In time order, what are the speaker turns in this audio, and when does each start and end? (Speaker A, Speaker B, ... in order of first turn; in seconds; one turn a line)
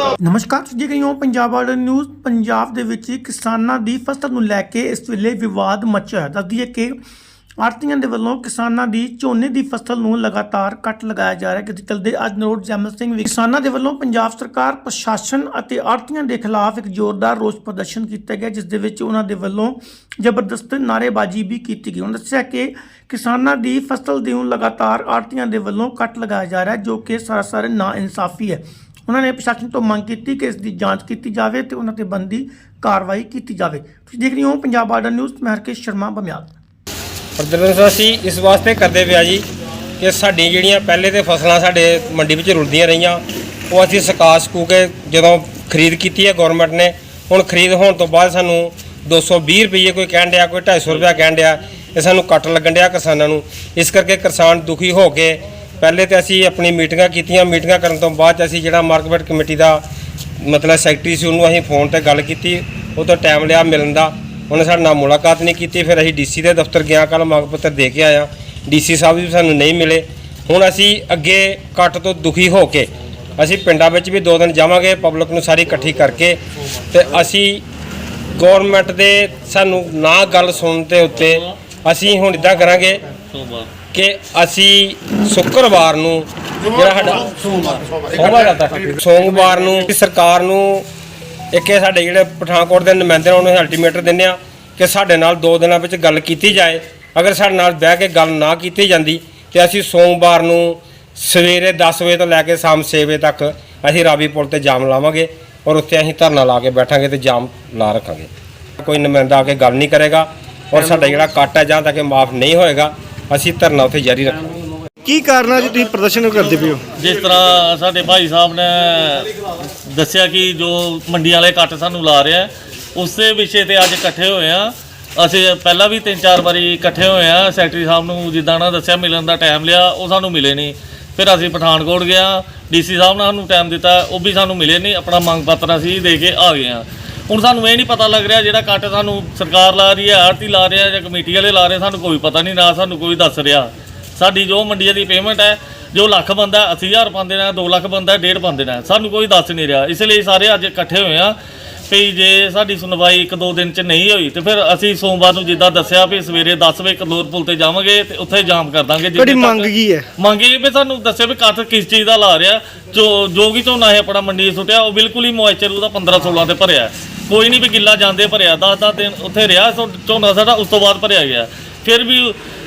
Speaker A: 0.2-7.0
Speaker A: 7.6-36.5
Speaker B: 37.4-39.4
Speaker B: 40.0-59.8
Speaker B: 60.4-76.4
Speaker B: 76.9-77.6
Speaker B: 78.4-83.0
Speaker C: 81.2-81.5
Speaker C: 83.3-83.7
Speaker B: 83.9-90.9
Speaker B: 91.5-108.3
Speaker B: 108.8-114.5
Speaker D: 115.0-116.8
Speaker C: 117.0-119.3
Speaker C: 119.9-151.4
Speaker C: 151.9-172.4
Speaker D: 159.2-160.1